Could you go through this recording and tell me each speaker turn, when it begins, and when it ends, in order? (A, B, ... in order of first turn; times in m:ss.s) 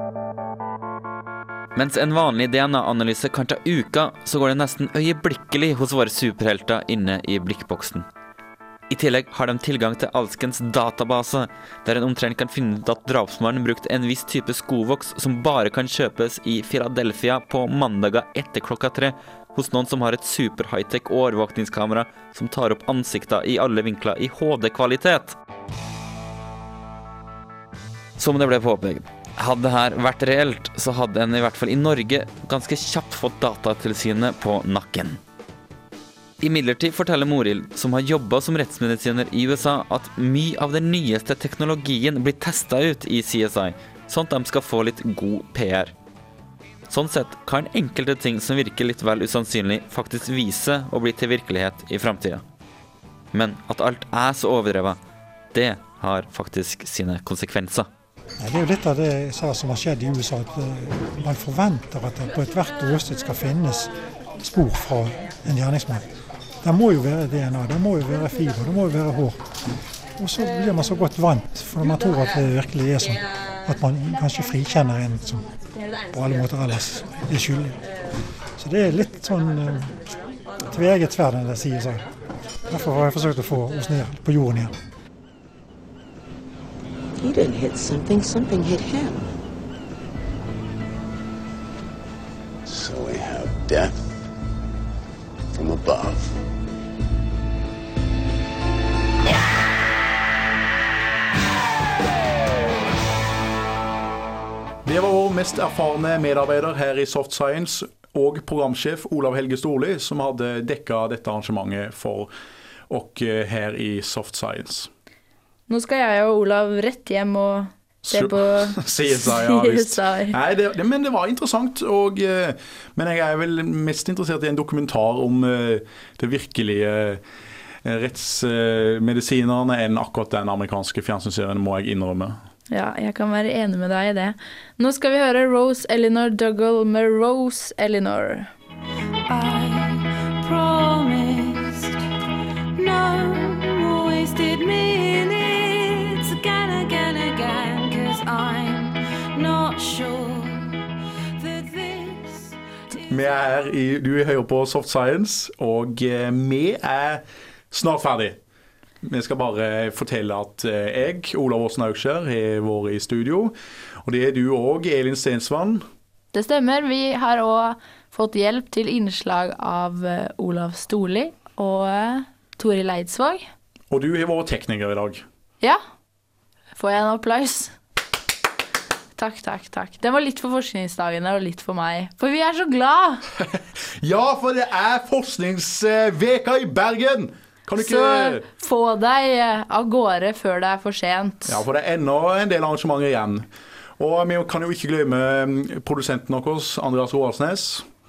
0:01.8-0:08.1 A
0:08.9-0:25.4 A
0:28.2-0:35.2 A
0:36.4-0:45.9 A
0:46.9-0:52.4 A
0:53.3-0:55.0 A
0:55.5-0:57.9 A
0:58.4-1:06.0 B
1:06.6-1:09.4 B
1:10.2-1:15.4 B
1:16.1-1:17.8 B
1:18.6-1:20.1 B
1:20.7-1:22.0 B
1:22.7-1:24.7 B
1:27.2-1:29.3 C
1:32.7-1:34.0 D
1:35.5-1:36.3 D
1:44.8-1:52.3 E
1:52.9-1:54.9 E
1:55.7-2:00.4 F
1:58.0-2:07.2 E
2:07.8-2:12.4 E
2:12.7-2:18.5 F
2:19.3-2:21.9 G
2:22.8-2:30.7 G
2:31.4-2:32.5 G
2:33.1-2:38.4 E
2:39.0-2:45.8 E
2:46.3-2:53.5 F
2:53.9-2:55.2 E
2:56.8-2:57.8 F
2:59.2-3:03.2 F
3:03.5-3:08.4 E
3:07.8-3:11.6 F
3:11.5-3:13.5 E
3:14.0-3:17.9 E